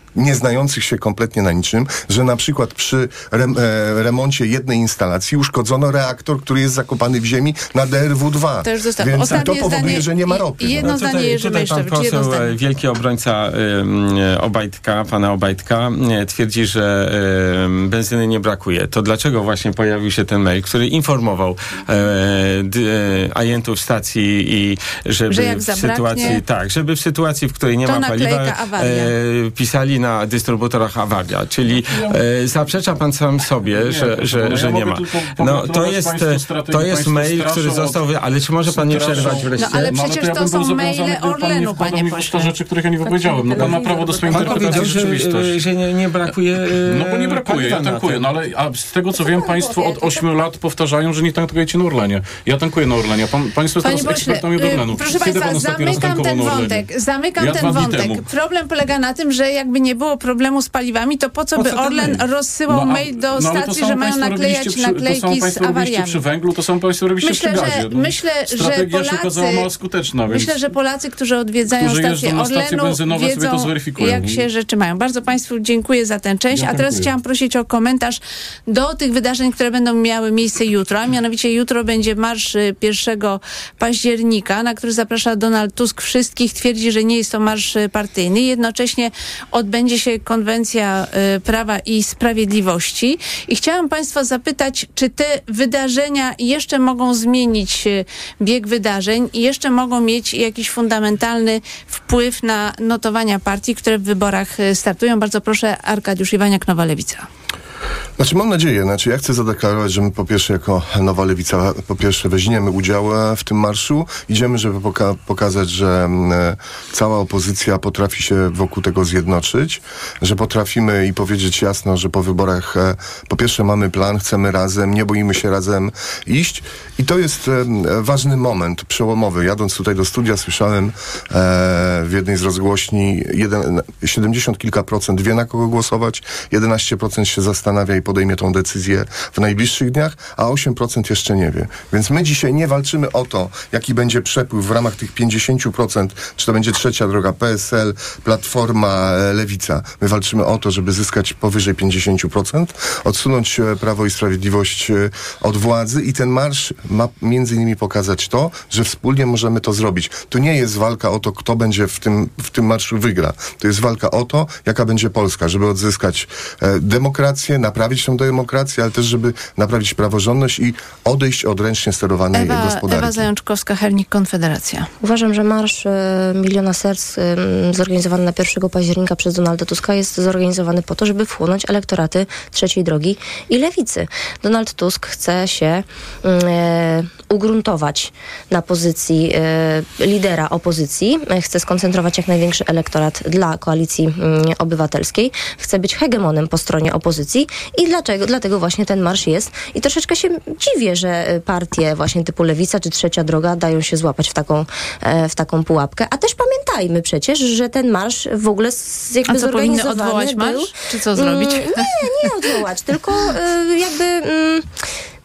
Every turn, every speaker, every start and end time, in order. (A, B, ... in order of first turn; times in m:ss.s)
0:00.1-0:10.9 A
0:08.6-0:12.6 B
0:09.3-0:09.6 C
0:10.8-0:40.0 C
0:25.3-0:26.4 B
0:27.8-0:29.1 B
0:31.9-0:32.2 D
0:33.6-0:38.0 D
0:38.6-0:45.6 D
0:39.6-0:42.5 B
0:43.0-0:44.9 E
0:44.3-0:48.3 C
0:46.8-0:58.2 D
0:49.1-0:50.3 E
0:53.8-1:06.2 B
1:01.6-1:10.5 D
1:07.2-1:09.6 B
1:10.3-1:47.3 B
1:11.8-1:14.4 D
1:16.5-1:17.1 D
1:48.2-2:53.2 A
2:52.3-2:54.9 B
2:55.0-3:34.7 E
3:29.2-3:32.3 B